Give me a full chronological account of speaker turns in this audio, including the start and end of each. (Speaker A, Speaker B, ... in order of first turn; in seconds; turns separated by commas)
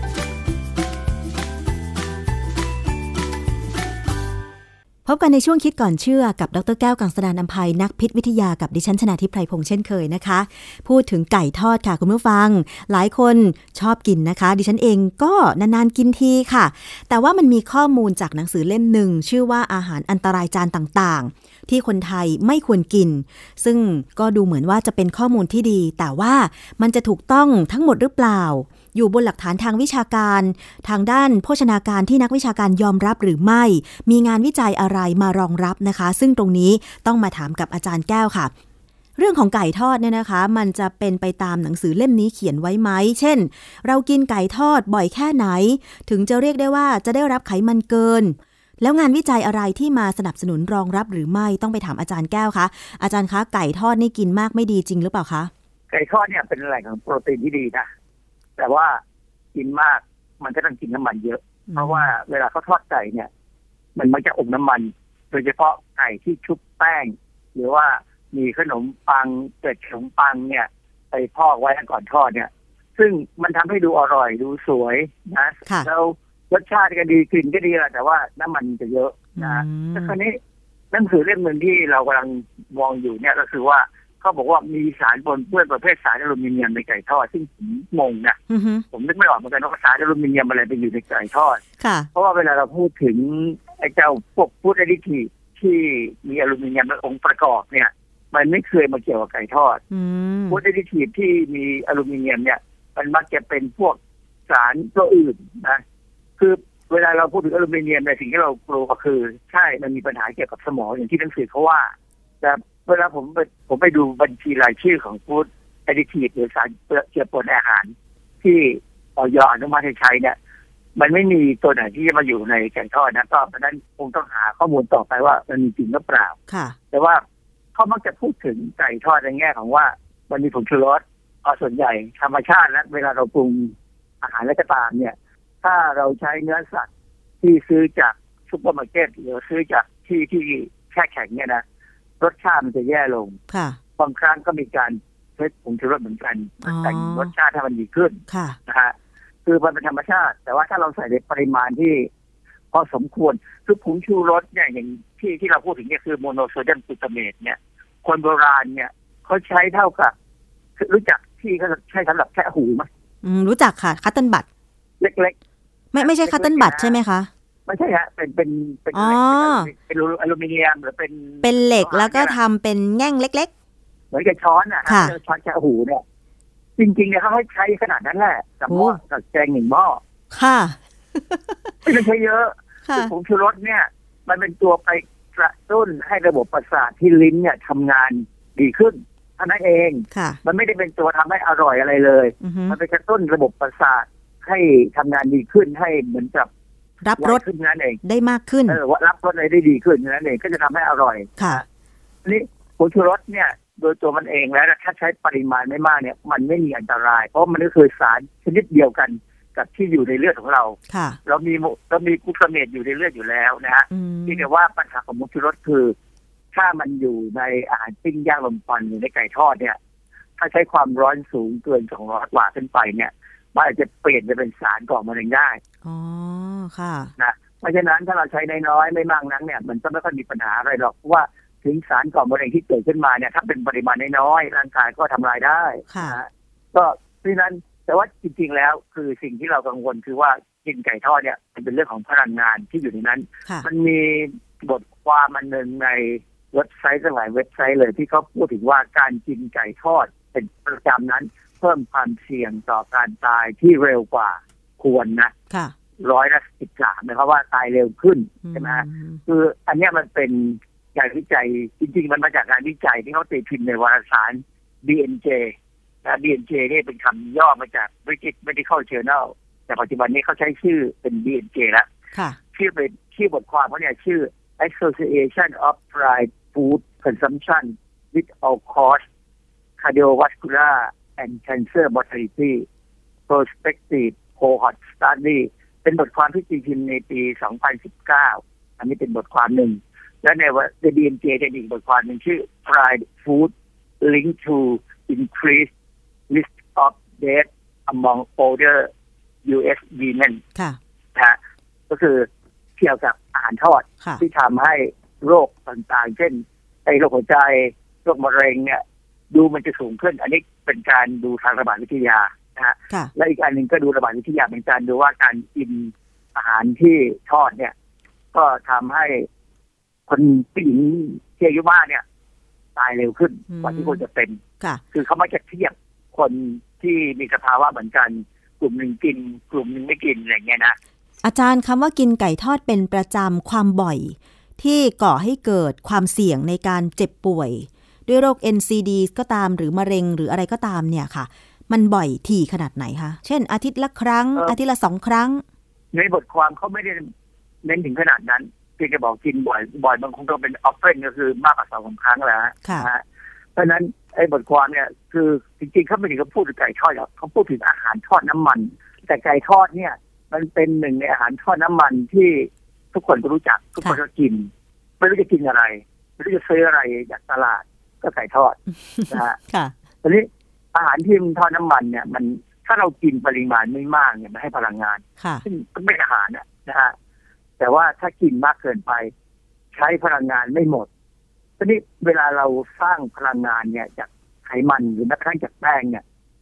Speaker A: 5.1-38.5, Speaker A: 39.2-55.5, Speaker B: 55.9-57.9, Speaker B: 58.6-59.0, Speaker B: 59.5-63.3, Speaker A: 61.7-62.1, Speaker B: 64.0-80.4, Speaker A: 79.4-80.2, Speaker B: 80.9-88.4, Speaker A: 88.5-88.8, Speaker B: 88.9-91.6, Speaker A: 91.8-92.1, Speaker B: 92.1-99.8, Speaker A: 99.9-100.6, Speaker B: 100.5-105.8, Speaker B: 106.4-120.3, Speaker B: 121.0-126.4, Speaker A: 126.5-126.8, Speaker B: 126.9-127.2, Speaker B: 127.8-136.9, Speaker B: 137.4-141.6, Speaker B: 142.2-143.4, Speaker A: 143.5-143.8, Speaker B: 144.0-148.9, Speaker A: 146.7-147.3, Speaker A: 148.3-148.6, Speaker B: 149.5-152.1, Speaker B: 152.7-160.1, Speaker B: 160.8-162.9, Speaker A: 163.2-164.5, Speaker B: 165.0-165.3, Speaker A: 165.9-167.3, Speaker B: 166.0-167.0, Speaker B: 167.7-172.4, Speaker A: 168.9-169.7, Speaker A: 171.4-173.5, Speaker B: 174.1-176.0, Speaker A: 174.9-175.2, Speaker B: 176.8-180.0, Speaker A: 178.7-179.0, Speaker A: 180.3-181.7, Speaker B: 181.8-196.5, Speaker A: 182.9-183.1, Speaker A: 190.1-190.4, Speaker A: 192.4-192.8, Speaker A: 197.0-197.4, Speaker B: 197.2-198.0, Speaker A: 198.0-198.8, Speaker B: 198.7-201.6, Speaker A: 201.4-201.6, Speaker B: 202.2-215.9, Speaker A: 210.9-211.2, Speaker A: 213.9-214.5, Speaker B: 216.5-219.8, Speaker B: 220.4-225.6, Speaker A: 225.8-227.1, Speaker B: 227.2-255.3, Speaker A: 235.9-236.2, Speaker B: 256.0-271.9, Speaker A: 258.4-259.2, Speaker B: 272.5-279.0, Speaker B: 279.8-282.7, Speaker B: 283.3-295.7, Speaker B: 296.3-298.9, Speaker B: 299.4-300.4, Speaker B: 301.9-317.7, Speaker B: 318.3-319.3, Speaker B: 320.1-322.0, Speaker B: 322.8-324.4, Speaker A: 323.5-324.0, Speaker B: 324.9-330.8, Speaker A: 331.2-345.4, Speaker B: 345.9-347.1, Speaker B: 347.6-353.0, Speaker B: 353.6-364.5, Speaker B: 365.0-368.6, Speaker A: 369.0-369.7, Speaker B: 369.1-369.4, Speaker B: 370.0-376.9, Speaker A: 375.2-375.4, Speaker B: 377.6-379.1, Speaker B: 379.7-380.9, Speaker B: 381.6-386.0